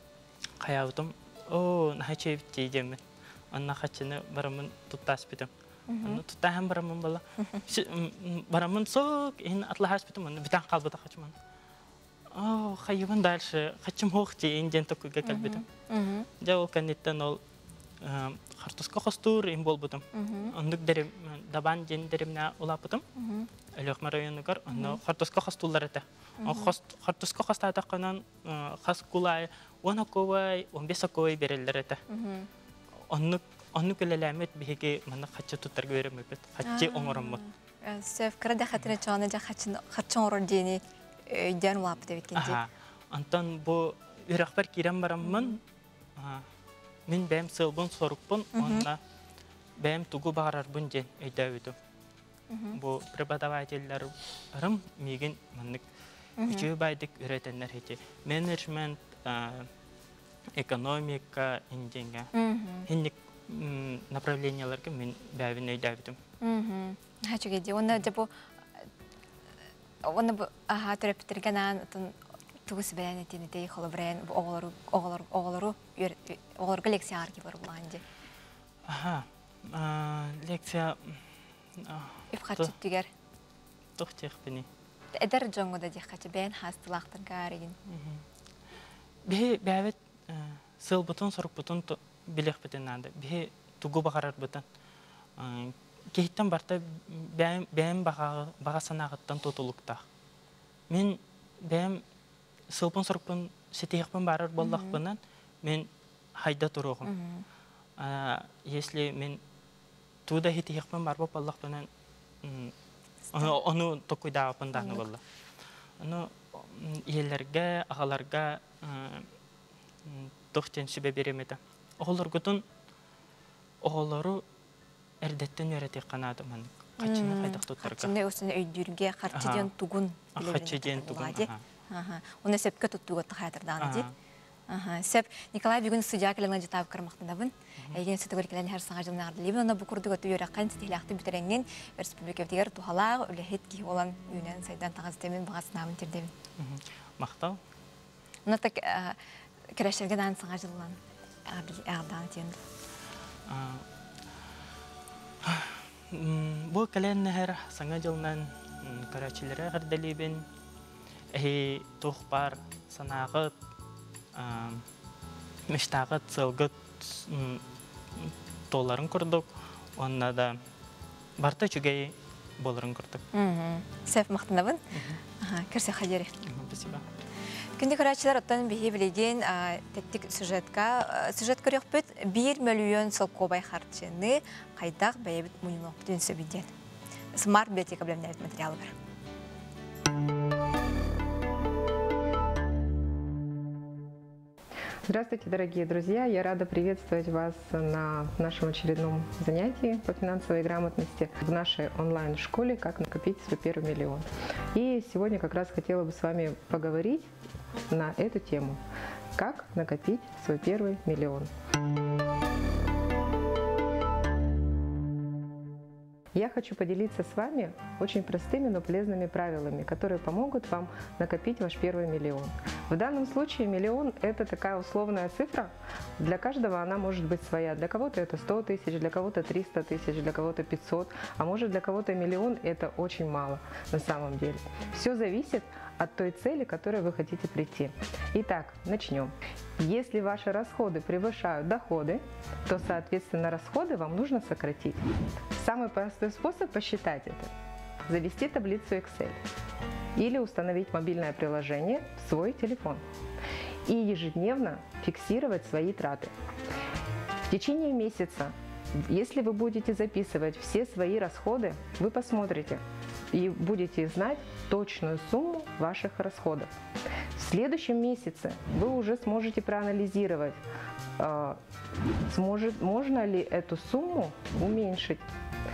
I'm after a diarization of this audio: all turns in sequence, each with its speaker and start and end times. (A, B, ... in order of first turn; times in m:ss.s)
0:00.6-0:03.0 A
0:03.5-0:05.5 A
0:05.9-0:06.2 B
0:06.0-0:11.3 A
0:12.3-0:15.6 A
0:15.2-0:16.3 B
0:16.4-0:17.4 A
0:18.0-0:23.0 A
0:20.1-0:20.5 B
0:23.2-0:23.5 B
0:23.7-0:32.0 A
0:24.7-0:25.0 B
0:26.4-0:26.7 B
0:32.1-0:32.5 B
0:33.1-0:37.4 A
0:36.6-0:42.6 B
0:42.4-0:45.6 A
0:45.2-0:45.6 B
0:46.2-0:46.5 A
0:47.1-0:49.0 A
0:48.5-0:48.8 B
0:49.8-0:51.7 A
0:52.5-0:52.8 B
0:52.7-0:55.8 A
0:56.4-0:56.7 B
0:56.5-0:59.7 A
1:00.5-1:02.3 A
1:02.3-1:02.9 B
1:02.9-1:06.2 A
1:06.4-1:08.3 B
1:10.0-1:12.1 B
1:12.6-1:18.0 B
1:18.8-1:22.7 A
1:22.3-1:23.1 B
1:24.0-1:24.7 A
1:25.2-1:27.7 B
1:27.9-1:28.2 A
1:29.3-1:34.6 A
1:35.4-1:40.0 A
1:40.9-1:42.0 A
1:42.7-1:47.1 A
1:44.6-1:45.0 B
1:47.0-1:47.4 B
1:48.0-1:49.4 A
1:50.3-1:51.9 A
1:52.4-1:52.7 A
1:53.3-1:55.2 A
1:54.8-1:55.0 B
1:56.0-1:59.3 A
2:00.0-2:02.6 A
2:03.8-2:04.4 A
2:05.2-2:08.1 A
2:07.0-2:14.1 B
2:09.3-2:09.7 A
2:10.4-2:11.6 A
2:13.8-2:14.1 A
2:14.7-2:26.3 B
2:26.6-2:27.6 A
2:28.4-2:29.2 B
2:29.8-2:32.6 B
2:33.5-2:33.8 A
2:35.4-2:40.4 A
2:41.3-2:43.5 A
2:44.3-2:44.8 A
2:45.7-2:47.6 A
2:48.2-2:50.6 A
2:51.4-2:53.2 A
2:53.3-2:54.8 B
2:54.9-2:55.2 A
2:55.4-2:56.4 B
2:56.4-2:57.0 A
2:57.8-3:06.7 B
3:07.3-3:08.9 B
3:15.0-3:27.3 C
3:27.9-3:28.8 C
3:29.4-3:31.5 C
3:36.3-4:07.5 C
4:08.0-4:09.4 C
4:10.2-4:13.0 C
4:13.8-4:16.3 C
4:17.5-4:26.7 C
4:27.4-4:30.6 C
4:31.2-4:31.6 C
4:32.3-4:35.2 C